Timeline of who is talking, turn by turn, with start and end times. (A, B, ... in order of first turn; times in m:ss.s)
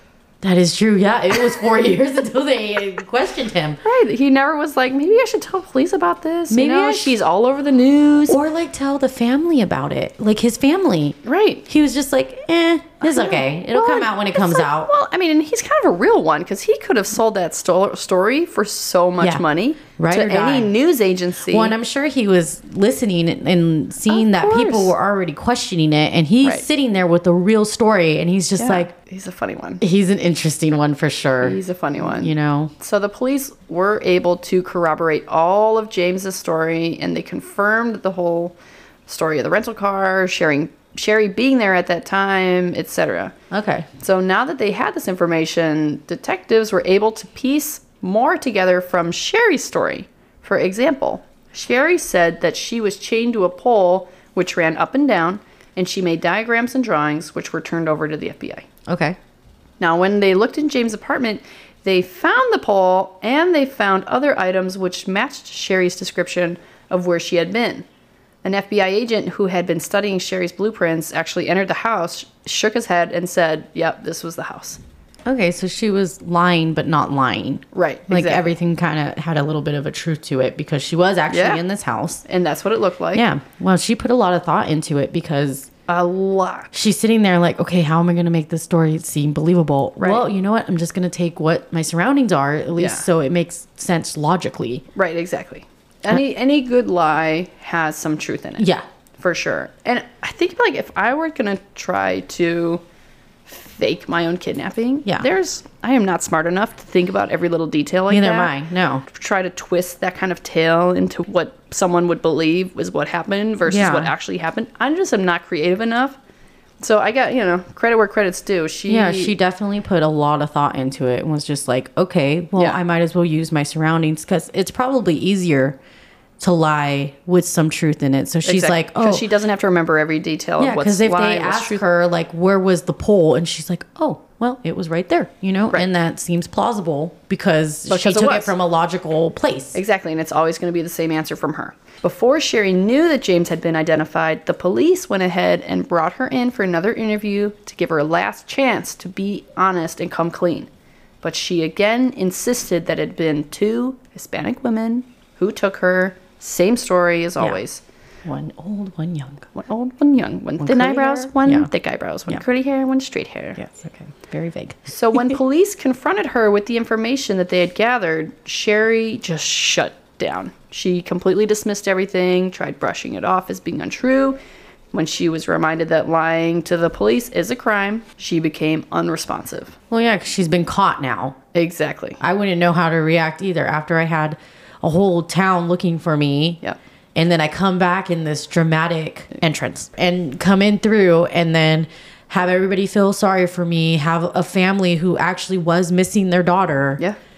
0:00.4-0:03.8 A
0:03.8-0:08.4 B
0:06.5-0:07.2 A
0:08.3-0:14.9 A
0:11.2-0:11.7 B
0:13.0-0:21.8 B
0:20.0-0:20.7 A
0:21.5-0:28.9 A
0:24.1-0:24.9 B
0:28.6-0:29.8 B
0:29.8-0:32.7 A
0:31.4-0:38.6 B
0:39.1-0:43.4 B
0:43.5-0:43.9 A
0:44.0-0:58.7 B
0:58.9-0:59.2 A
0:59.8-1:07.8 B
1:08.4-1:14.8 B
1:15.3-1:22.2 A
1:17.7-1:18.5 B
1:21.3-1:21.6 B
1:22.3-1:23.2 B
1:23.1-1:25.7 A
1:25.9-1:26.7 B
1:26.7-1:34.8 A
1:30.0-1:30.2 B
1:32.8-1:33.0 B
1:35.0-1:38.7 B
1:38.6-1:38.8 A
1:39.2-1:42.8 B
1:43.5-1:48.5 B
1:48.1-1:49.0 A
1:49.0-1:56.2 B
1:53.7-1:54.1 A
1:56.8-1:59.4 B
1:58.9-2:05.8 A
2:06.4-2:09.3 A
2:08.4-2:11.8 B
2:10.6-2:19.8 A
2:17.9-2:18.5 B
2:19.7-2:30.7 B
2:31.2-2:37.8 B
2:38.2-2:39.5 A
2:39.5-2:43.6 B
2:40.6-2:41.7 A
2:43.6-2:45.4 A
2:44.9-2:54.4 B
2:54.9-2:59.8 B
2:59.9-3:01.4 A
3:01.5-3:02.2 B
3:02.2-3:06.6 A
3:07.2-3:17.0 A